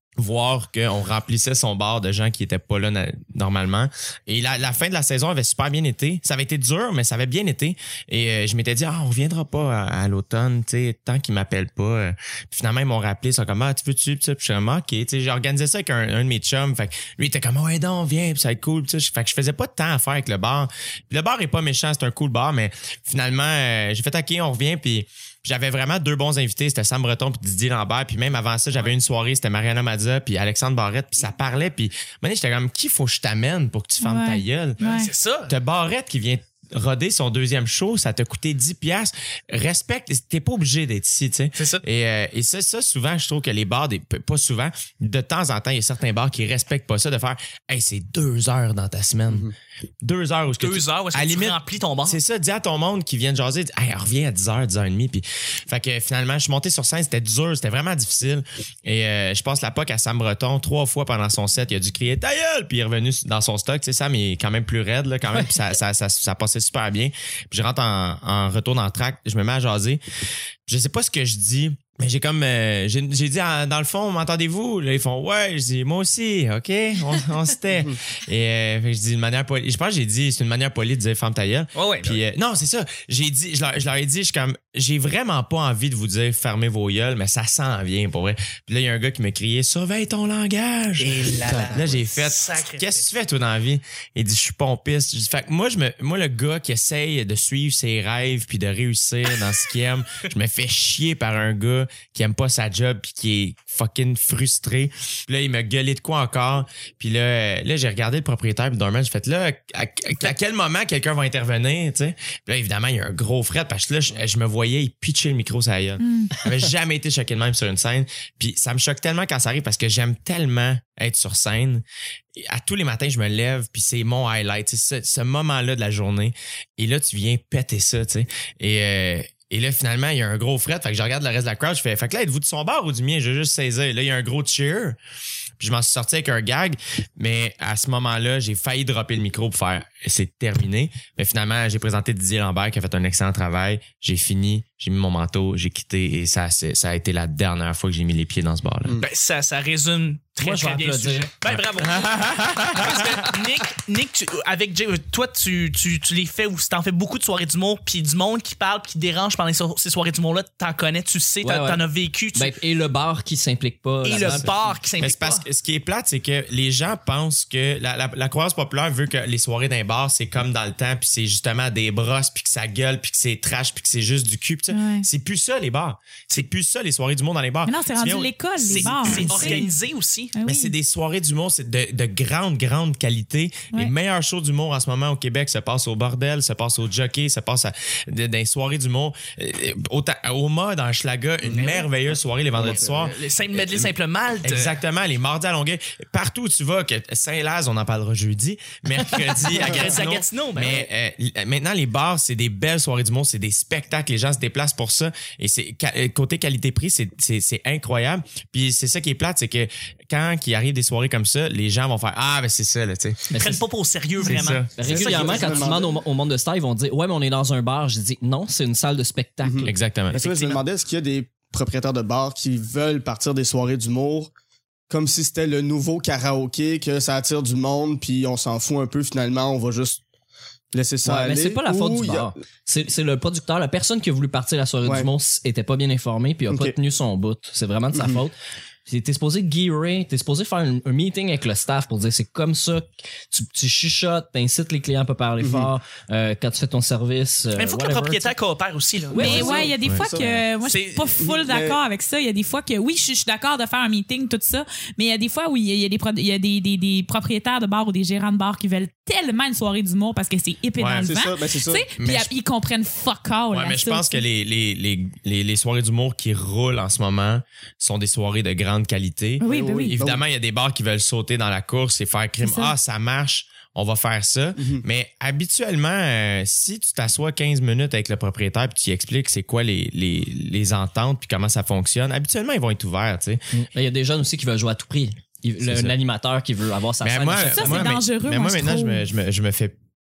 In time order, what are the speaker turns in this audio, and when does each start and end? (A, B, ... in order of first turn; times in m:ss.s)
0:00.2-0:34.8 A
0:34.0-0:35.1 B
0:34.8-0:35.5 C
0:35.5-1:10.0 A
0:41.6-0:41.8 C
0:50.6-0:52.2 C
1:10.7-2:01.8 A
1:21.8-1:22.2 C
1:31.0-1:33.1 C
1:56.0-1:56.3 B
2:02.4-2:15.0 A
2:15.6-2:29.0 A
2:29.0-2:42.6 C
2:30.4-2:31.4 D
2:31.4-2:33.3 A
2:41.4-2:41.8 D
2:42.4-2:44.9 D
2:44.0-2:45.4 C
2:44.2-2:59.7 A
2:54.7-2:55.1 B
2:57.7-2:59.7 B
2:58.6-3:00.3 C
3:00.4-3:00.7 B
3:00.4-3:13.9 A
3:11.5-3:11.9 C
3:12.6-3:14.7 C
3:14.4-3:33.3 A
3:19.5-3:20.9 C
3:33.3-3:33.6 D
3:33.3-3:35.8 C
3:34.2-3:39.7 D
3:34.2-3:34.7 A
3:34.8-3:36.0 E
3:39.4-3:44.3 E
3:39.6-3:40.2 A
3:40.2-3:40.6 C
3:44.9-3:50.0 E
3:50.7-3:52.4 E
3:51.0-3:58.4 D
3:54.8-3:55.1 E
3:56.5-3:56.8 E
3:57.9-3:58.2 E
3:58.9-4:08.3 D
4:05.4-4:05.7 E
4:07.5-4:09.7 C
4:09.1-4:09.8 D
4:09.2-4:24.2 B
4:09.3-4:10.3 E
4:09.8-4:10.4 A
4:10.6-4:11.2 C
4:11.2-4:11.8 E
4:20.8-4:21.1 A
4:21.0-4:21.8 E
4:22.0-4:22.3 A
4:23.5-4:43.4 A
4:29.4-4:29.9 B
4:29.4-4:30.2 E
4:32.4-4:32.7 B
4:34.6-4:34.8 E
4:43.5-4:47.9 D
4:45.6-4:46.0 A
4:47.0-4:49.8 A
4:47.4-4:49.0 B